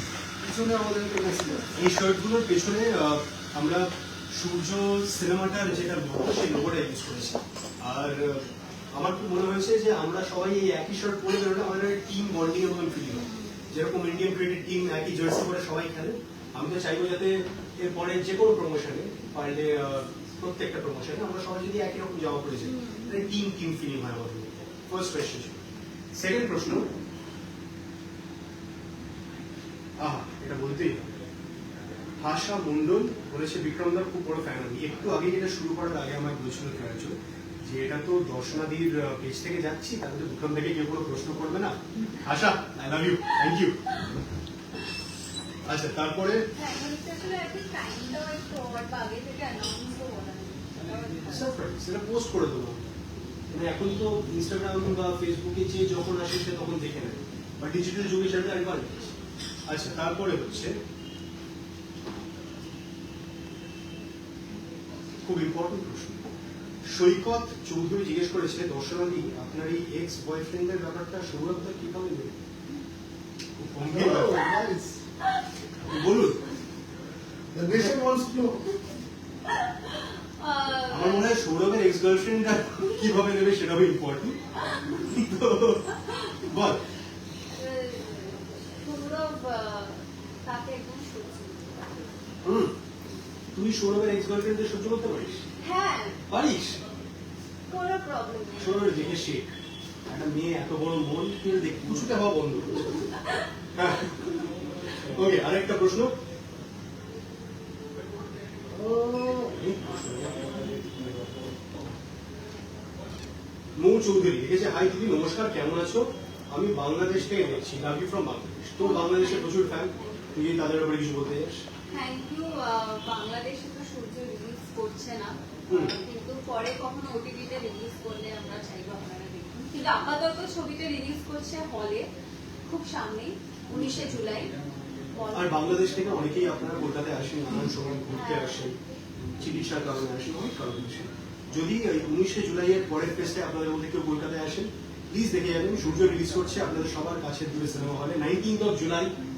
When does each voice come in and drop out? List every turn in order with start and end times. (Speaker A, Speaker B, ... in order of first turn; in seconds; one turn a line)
Speaker A: 0.4-1.7
Speaker B: 1.8-25.6
Speaker C: 13.1-13.6
Speaker C: 22.6-23.3
Speaker B: 26.1-26.9
Speaker B: 30.0-31.1
Speaker B: 32.2-37.1
Speaker B: 37.6-43.8
Speaker B: 45.6-46.4
Speaker C: 46.5-51.5
Speaker B: 51.2-52.8
Speaker B: 53.5-59.1
Speaker C: 58.9-59.2
Speaker B: 59.7-60.7
Speaker B: 65.2-66.2
Speaker B: 66.8-72.3
Speaker B: 73.6-74.5
Speaker A: 73.8-75.0
Speaker B: 75.8-76.4
Speaker A: 77.5-78.8
Speaker C: 79.6-81.4
Speaker B: 80.9-84.4
Speaker B: 84.9-86.8
Speaker C: 87.5-92.1
Speaker B: 92.4-92.7
Speaker B: 93.5-95.4
Speaker C: 95.6-96.2
Speaker B: 96.3-96.8
Speaker C: 97.7-99.1
Speaker B: 98.6-99.5
Speaker B: 100.1-103.1
Speaker B: 103.7-104.3
Speaker B: 105.0-106.1
Speaker B: 108.7-111.1
Speaker B: 113.8-121.6
Speaker C: 118.8-120.2
Speaker C: 121.9-132.1
Speaker B: 125.7-125.9
Speaker C: 132.7-134.5
Speaker C: 135.1-135.8
Speaker B: 135.3-138.8
Speaker C: 138.1-138.7
Speaker B: 139.4-149.1